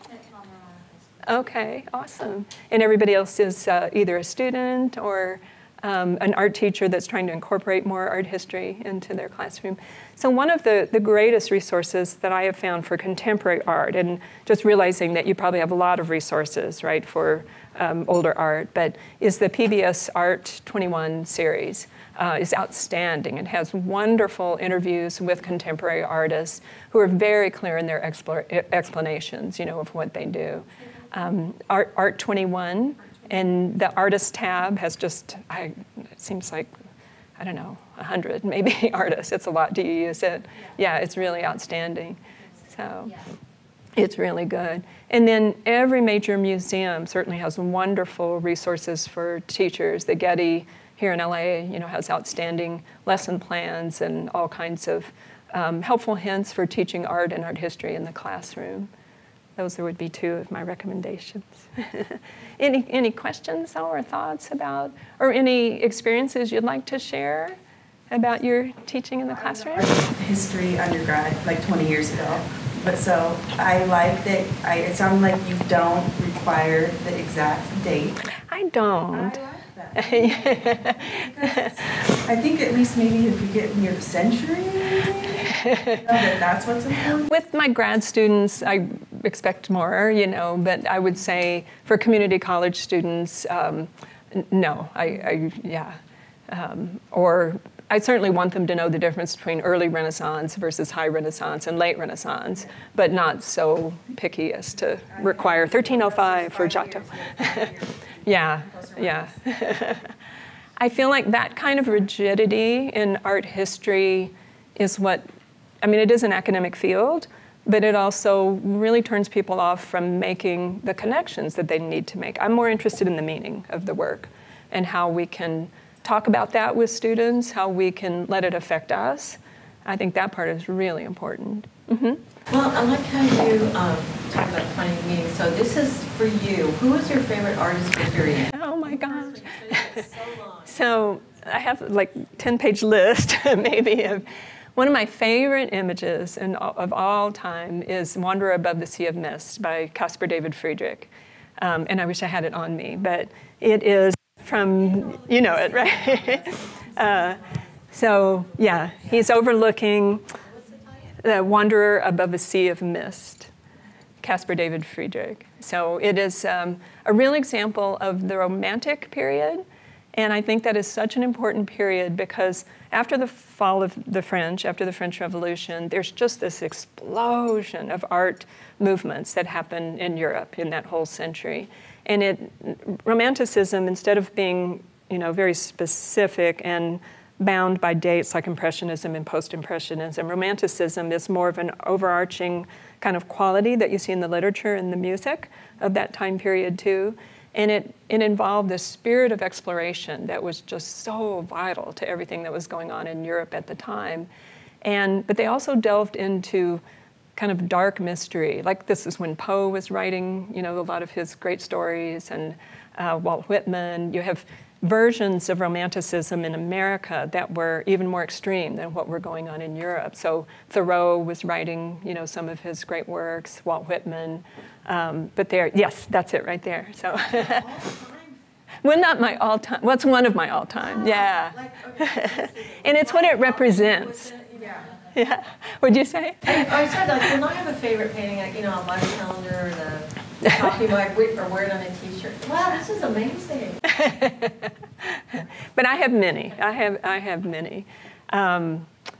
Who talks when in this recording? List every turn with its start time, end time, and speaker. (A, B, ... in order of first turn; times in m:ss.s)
0:01.2-0:36.7 A
0:37.4-0:43.2 A
0:44.0-0:58.9 A
0:59.6-1:07.6 A
1:08.1-1:09.9 A
1:09.6-1:18.2 B
1:18.5-1:19.4 A
1:19.1-1:27.3 B
1:19.9-1:21.7 A
1:25.6-1:26.0 A
1:27.2-1:36.0 A
1:36.5-1:50.1 A
1:50.8-1:55.2 A
1:55.8-2:12.2 A
2:12.5-2:20.7 C
2:18.5-2:20.0 A
2:20.6-2:40.2 A
2:41.2-2:43.5 A
2:44.2-2:49.6 A
2:50.1-3:24.3 A
3:24.8-3:26.8 A
3:27.4-3:47.9 A
3:47.7-3:48.3 C
3:48.8-3:54.3 A
3:51.1-3:55.0 C
3:55.1-3:56.7 A
3:56.4-4:04.0 C
4:03.9-4:08.9 A